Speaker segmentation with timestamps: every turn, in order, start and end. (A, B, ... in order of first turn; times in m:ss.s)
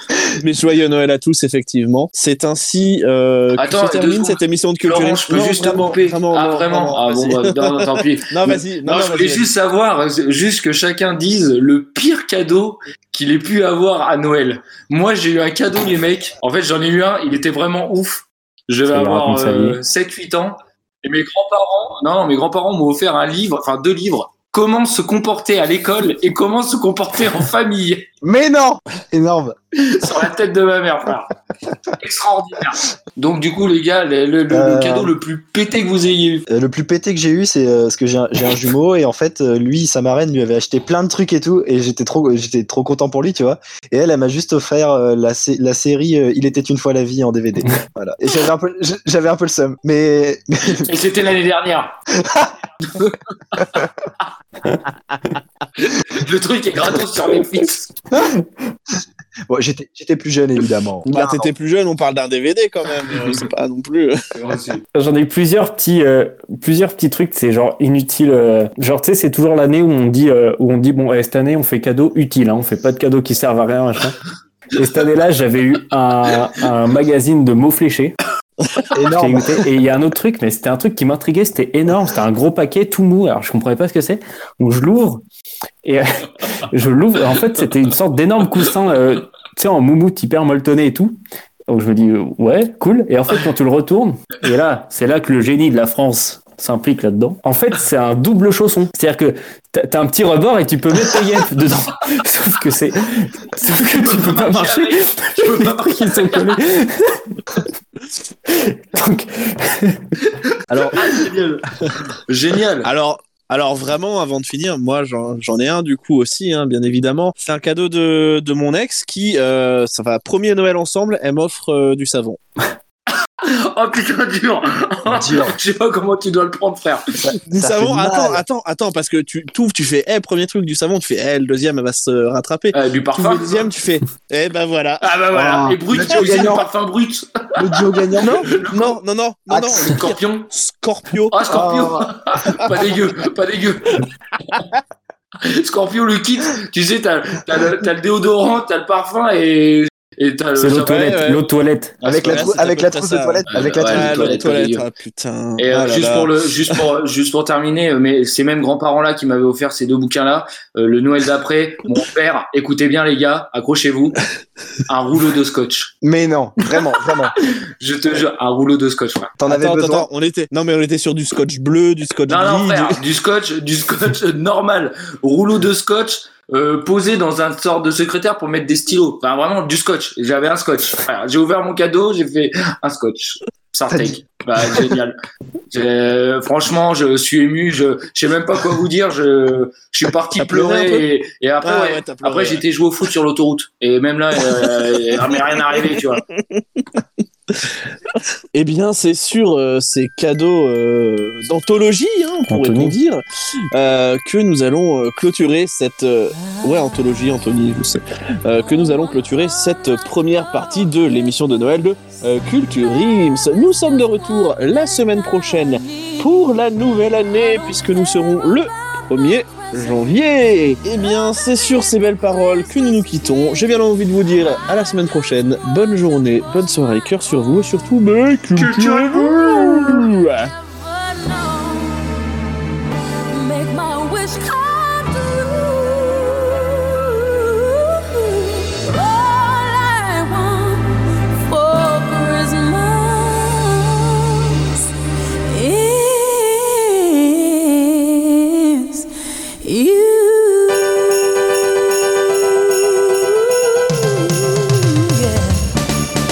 0:00.4-0:09.5 A
0:03.5-0:28.1 B
0:18.8-0:19.8 C
0:28.2-0:29.6 D
0:29.8-0:31.3 B
0:32.0-0:36.4 B
0:34.5-0:35.1 D
0:36.5-0:50.9 D
0:50.7-0:51.9 B
0:52.1-0:52.5 D
0:52.8-0:53.8 B
0:54.9-0:55.4 A
0:55.8-0:57.8 B
0:59.5-1:01.5 D
1:01.1-1:04.1 A
1:04.3-1:04.8 B
1:04.9-1:14.2 C
1:14.7-1:18.2 C
1:18.9-1:19.6 D
1:19.1-1:25.2 C
1:25.8-1:31.2 C
1:31.7-1:47.6 C
1:43.9-1:46.6 B
1:48.4-1:50.0 C
1:50.2-1:51.6 B
1:50.7-1:51.2 A
1:52.2-1:52.9 B
1:52.8-2:02.4 A
2:03.4-2:07.0 B
2:05.1-2:05.6 D
2:07.2-2:08.4 D
2:07.5-2:15.1 A
2:12.7-2:13.7 B
2:15.0-2:17.2 B
2:15.3-2:16.7 D
2:16.1-2:16.4 A
2:17.6-2:18.4 D
2:18.2-2:21.4 A
2:18.5-2:19.0 B
2:19.5-2:19.8 D
2:19.8-2:20.5 B
2:21.3-2:24.0 B
2:21.4-2:22.1 D
2:24.5-2:24.8 A
2:25.4-2:31.2 B
2:30.6-2:32.0 C
2:30.9-2:31.4 A
2:32.0-2:32.5 B
2:32.0-2:34.4 D
2:32.2-2:36.3 A
2:33.5-2:34.8 B
2:35.6-2:44.2 B
2:44.9-2:45.9 B
2:46.0-2:47.3 D
2:47.8-2:49.3 B
2:49.4-2:50.1 D
2:49.5-2:53.0 A
2:52.3-3:05.2 B
3:03.9-3:04.2 D
3:05.7-3:16.2 B
3:10.4-3:11.0 A
3:11.6-3:12.6 A
3:14.4-3:23.2 A
3:22.5-3:23.0 C
3:23.7-3:50.5 A
3:39.6-3:40.0 E
3:48.6-3:49.4 B
3:50.5-3:52.0 E
3:53.3-4:04.8 E
4:05.5-4:09.1 E
4:09.6-4:15.7 E